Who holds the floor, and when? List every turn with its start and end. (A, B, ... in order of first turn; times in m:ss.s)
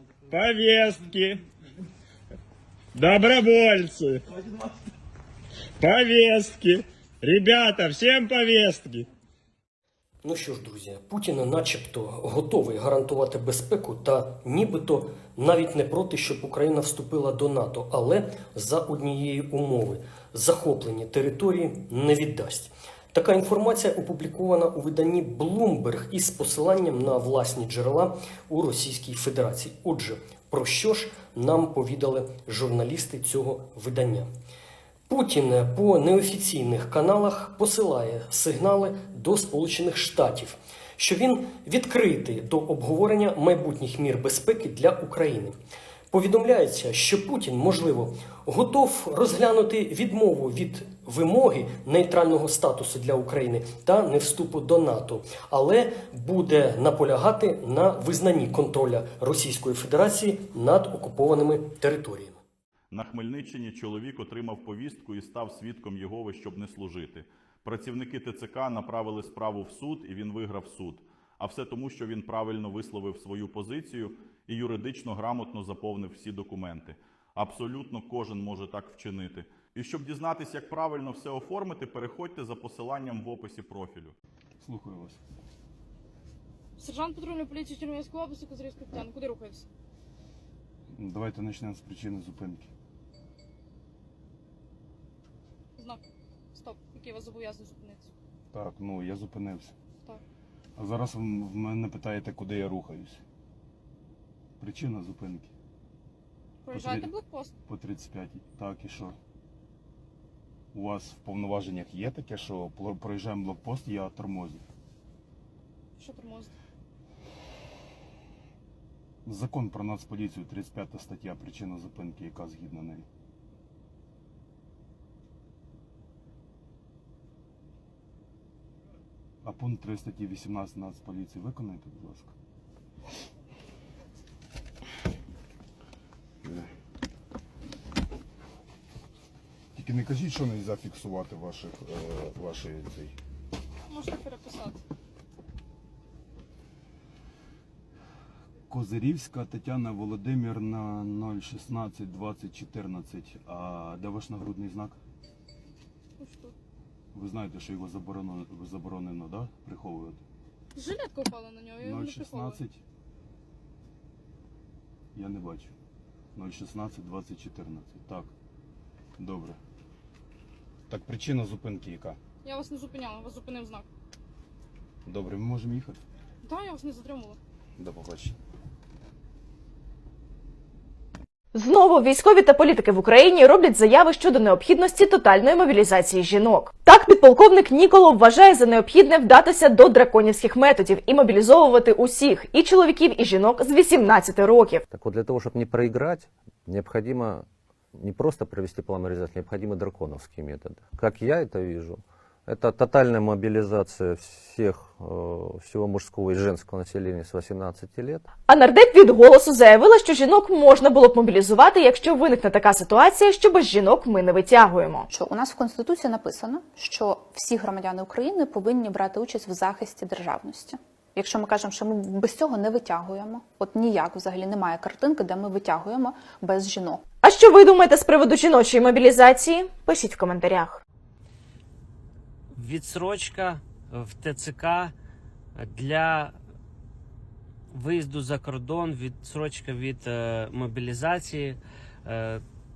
0:00.3-0:01.4 A
0:02.9-0:04.2 A
0:05.8-0:09.0 A
0:10.2-0:34.3 B
0:35.1-0:45.5 B
0:46.1-1:02.4 B
1:02.9-1:24.1 C
1:24.6-1:25.2 D
1:26.8-1:29.7 E
1:30.9-1:32.7 D
1:36.5-1:38.1 E
1:38.5-1:39.7 D
1:40.8-1:43.2 D
1:44.6-1:45.5 D
1:46.6-1:47.5 E
1:46.7-1:47.1 D
1:47.6-1:49.2 D
1:50.7-1:54.6 D
1:56.0-1:56.5 E
1:59.2-2:03.0 D
2:09.4-2:12.3 D
2:16.4-2:16.7 D
2:19.7-2:23.1 D
2:23.9-2:24.8 E
2:28.7-2:35.0 D
2:36.2-2:36.5 E
2:37.1-2:40.2 D
2:40.7-2:42.6 E
2:41.8-2:42.8 D
2:45.1-2:45.7 D
2:46.3-2:48.3 D
2:49.2-2:49.6 D
2:50.9-2:52.2 D
2:52.4-2:53.9 E
2:55.0-2:56.0 D
2:56.4-2:57.4 E
2:57.8-2:58.3 D
3:01.5-3:14.8 F
3:14.9-3:28.2 G
3:28.5-3:35.0 F
3:35.1-3:47.0 H
3:47.2-3:50.8 F
3:52.5-3:54.9 I
3:55.6-3:56.3 I
3:57.7-4:02.4 I